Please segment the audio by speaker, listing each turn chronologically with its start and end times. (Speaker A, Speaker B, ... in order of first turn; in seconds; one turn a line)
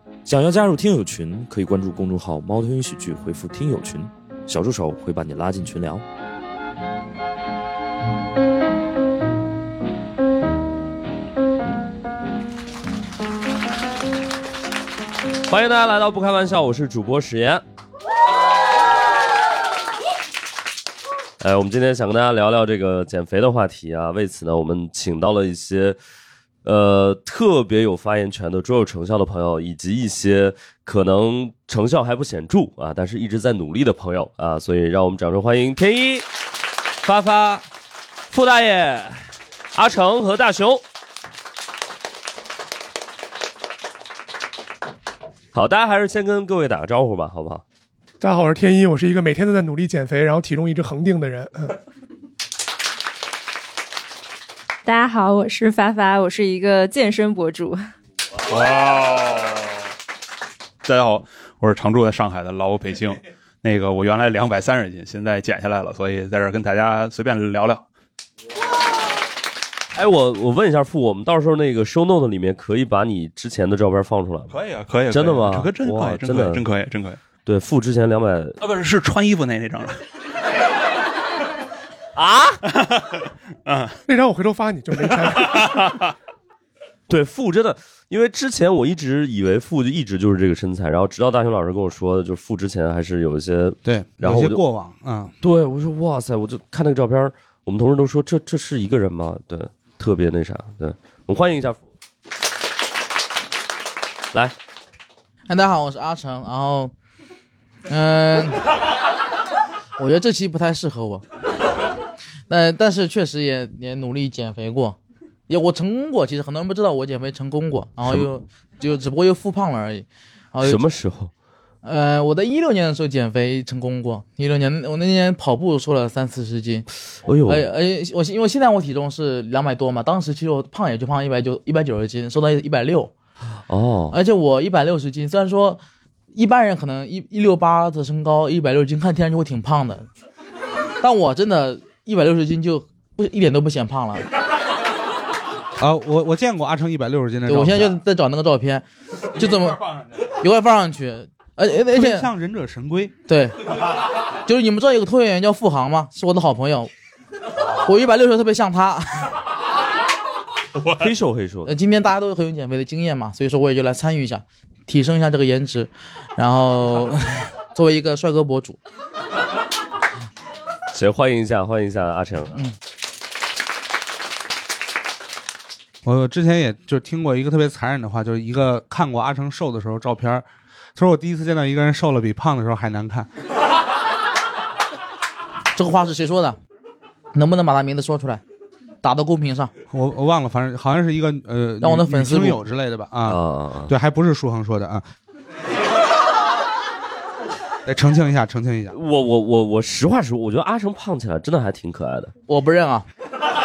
Speaker A: 0.2-6.0
Speaker B: 15.5-17.6
Speaker B: 21.4-26.0
Speaker B: 26.6-36.3
Speaker B: 37.0-37.7
Speaker B: 38.3-40.8
Speaker B: 45.5-47.6
Speaker C: 48.2-51.8
Speaker D: 54.9-57.8
Speaker E: 58.5-59.7
Speaker E: 60.8-67.8
Speaker B: 70.0-74.5
Speaker E: 74.5-77.2
Speaker B: 75.1-76.6
Speaker B: 77.5-78.6
Speaker E: 78.6-80.0
Speaker B: 82.2-82.6
Speaker E: 82.8-84.0
Speaker C: 84.1-86.0
Speaker E: 85.5-86.1
Speaker B: 87.1-94.6
Speaker F: 93.8-95.3
Speaker B: 95.4-101.8
Speaker G: 105.5-106.9
Speaker G: 107.9-108.6
Speaker G: 110.0-111.2
Speaker G: 112.5-115.0
Speaker G: 115.5-120.8
Speaker B: 120.6-121.3
Speaker G: 121.8-126.9
Speaker B: 127.2-127.7
Speaker G: 127.5-133.1
Speaker B: 133.7-134.2
Speaker G: 134.1-135.8
Speaker G: 136.3-140.1
Speaker G: 141.0-144.2
Speaker F: 145.8-148.0
Speaker G: 147.5-152.3
Speaker F: 151.9-153.1
Speaker G: 153.3-153.7
Speaker G: 154.4-156.9
Speaker G: 157.8-159.3
Speaker B: 160.9-161.7
Speaker G: 161.7-168.8
Speaker B: 170.9-172.6
Speaker F: 176.0-180.4
Speaker F: 181.0-183.3
Speaker G: 185.8-186.6
Speaker G: 187.3-188.4
Speaker G: 189.0-189.7
Speaker F: 189.9-195.1
Speaker G: 191.8-192.6
Speaker B: 193.3-193.9
Speaker F: 197.9-198.9
Speaker B: 198.9-202.3
Speaker G: 202.5-203.1